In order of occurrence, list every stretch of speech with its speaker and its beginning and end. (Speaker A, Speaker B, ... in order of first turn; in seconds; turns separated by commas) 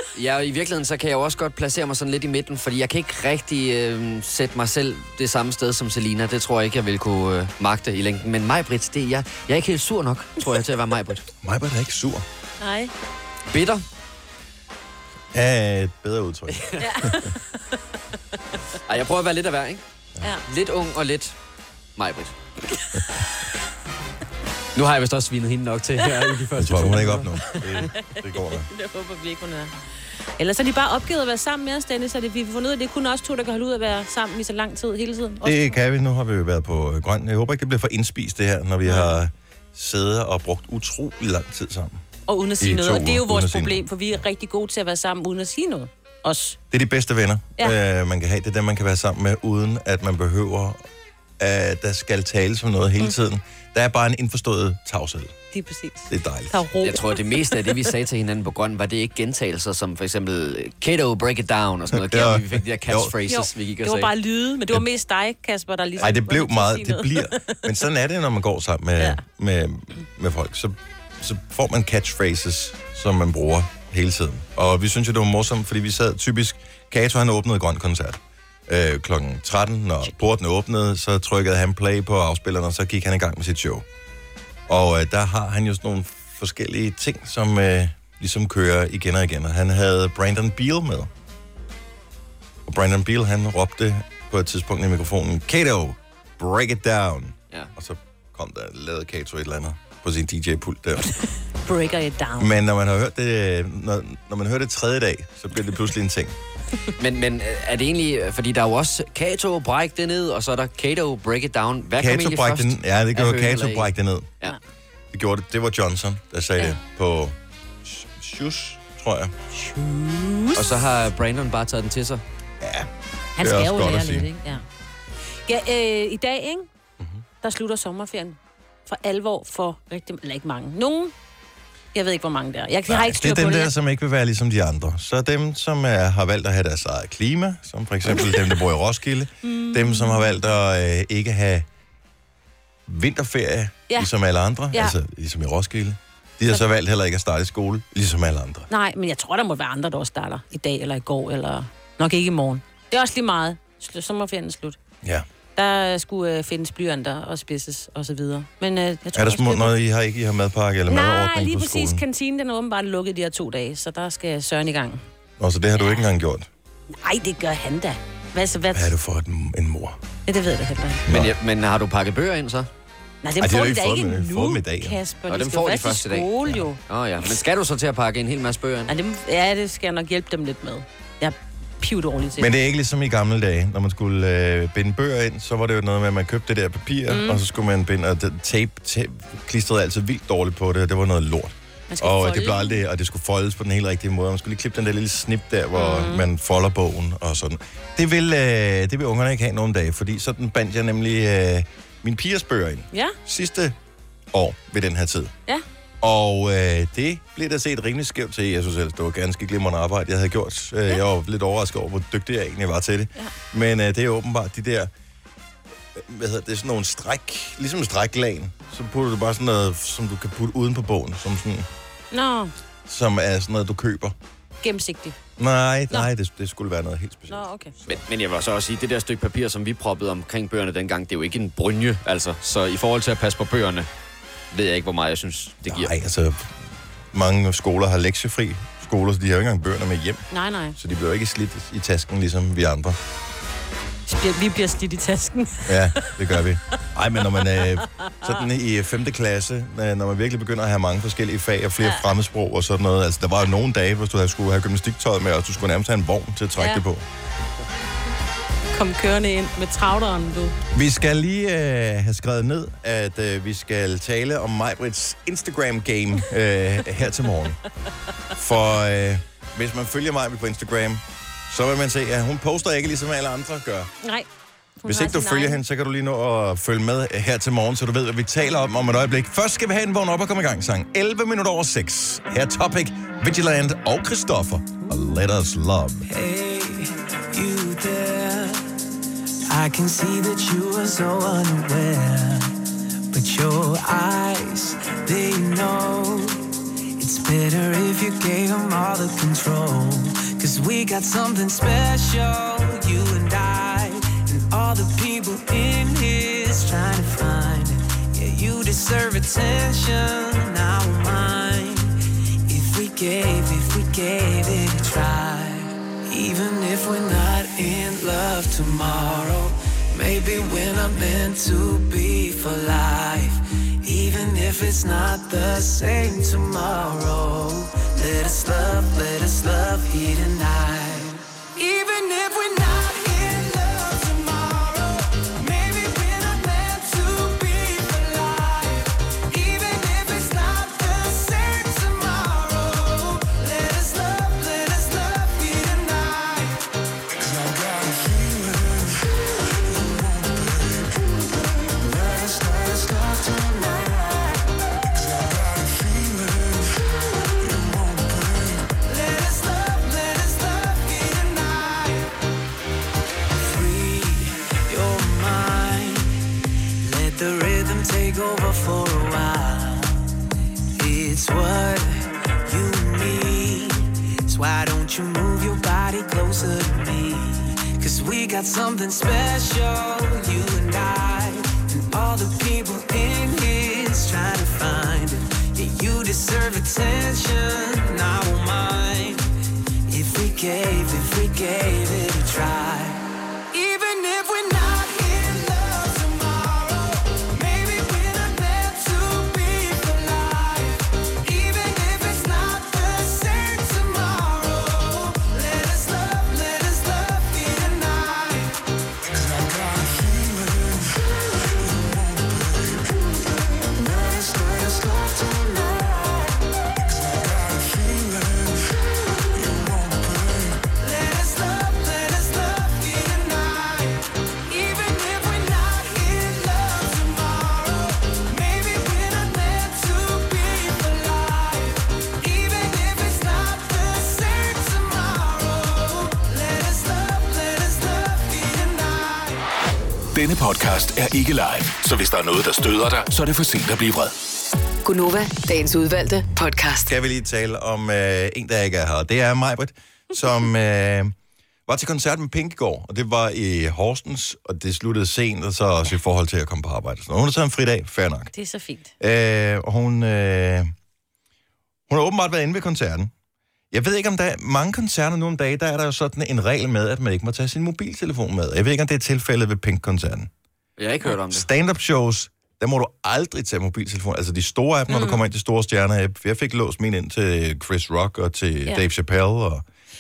Speaker A: 0.1-11.3, Speaker B: 11.4-12.2, Speaker C: 12.6-12.9, Speaker A: 13.5-13.8, Speaker B: 15.3-17.3, Speaker A: 16.5-16.9, Speaker C: 16.8-17.3, Speaker A: 18.9-19.8, Speaker A: 20.4-21.4, Speaker A: 22.0-22.4, Speaker A: 24.8-27.6, Speaker B: 26.6-28.7, Speaker C: 27.6-29.7, Speaker C: 30.4-35.8, Speaker B: 35.4-42.0, Speaker C: 38.8-39.2, Speaker C: 42.3-46.6, Speaker B: 42.6-43.9, Speaker B: 46.7-50.8, Speaker B: 51.4-55.4, Speaker C: 55.5-57.8, Speaker B: 56.1-56.6, Speaker A: 56.8-64.1, Speaker B: 61.9-63.2, Speaker C: 63.3-67.7, Speaker B: 66.0-83.8, Speaker B: 84.7-91.1, Speaker B: 92.7-101.2, Speaker C: 101.7-102.6, Speaker B: 102.4-106.4, Speaker A: 107.0-113.9, Speaker B: 112.0-114.3, Speaker B: 115.1-119.3, Speaker C: 119.5-120.7, Speaker A: 120.5-122.2, Speaker B: 122.6-124.3, Speaker C: 123.4-124.6, Speaker C: 125.5-126.7, Speaker C: 127.4-131.1, Speaker C: 131.9-133.7, Speaker B: 132.9-141.7, Speaker C: 139.4-140.4, Speaker B: 142.9-148.7, Speaker C: 148.7-154.8, Speaker C: 155.6-159.8, Speaker B: 159.1-162.0, Speaker C: 160.9-165.0, Speaker B: 165.4-166.5, Speaker C: 165.8-166.1, Speaker C: 166.9-168.9, Speaker B: 168.7-170.0, Speaker C: 170.3-171.1, Speaker B: 171.1-171.3, Speaker A: 171.1-172.7, Speaker C: 173.2-177.4, Speaker B: 173.4-175.0, Speaker A: 175.3-176.3, Speaker A: 176.8-178.9, Speaker C: 178.9-182.6, Speaker B: 182.4-203.8, Speaker C: 187.1-187.4, Speaker C: 191.9-192.8, Speaker C: 195.7-196.3, Speaker C: 202.9-203.2, Speaker B: 204.3-205.4, Speaker B: 206.0-214.9, Speaker B: 215.9-221.7, Speaker C: 222.1-222.5, Speaker B: 222.9-224.2, Speaker C: 224.6-225.2, Speaker B: 225.4-228.0, Speaker C: 227.3-227.7, Speaker A: 227.8-233.9, Speaker A: 234.5-235.9, Speaker B: 235.6-236.5, Speaker B: 237.1-240.2, Speaker C: 240.3-240.8, Speaker B: 240.8-243.0, Speaker C: 244.1-246.4, Speaker B: 245.7-257.1, Speaker C: 247.4-248.5, Speaker C: 251.8-252.1, Speaker C: 256.6-256.9, Speaker C: 258.7-260.6, Speaker B: 260.7-267.6, Speaker B: 268.4-273.9, Speaker C: 274.0-274.3, Speaker C: 274.8-275.6, Speaker B: 274.9-286.1, Speaker D: 286.1-288.7, Speaker D: 289.5-292.6, Speaker D: 293.1-296.4, Speaker D: 297.0-349.1, Speaker D: 349.6-356.8, Speaker D: 357.4-362.1, Speaker D: 363.4-366.2, Speaker D: 366.8-370.1, Speaker D: 370.8-389.2, Speaker D: 389.9-408.6, Speaker D: 409.1-411.0, Speaker D: 411.6-418.8, Speaker D: 419.3-439.5, Speaker E: 440.1-444.1, Speaker F: 444.8-446.9, Speaker B: 446.9-451.1, Speaker B: 451.7-458.3, Speaker C: 458.3-458.9, Speaker B: 459.0-460.7, Speaker B: 461.9-463.1, Speaker B: 463.7-470.3, Speaker A: 470.8-471.5, Speaker B: 471.3-479.6, Speaker C: 474.9-475.2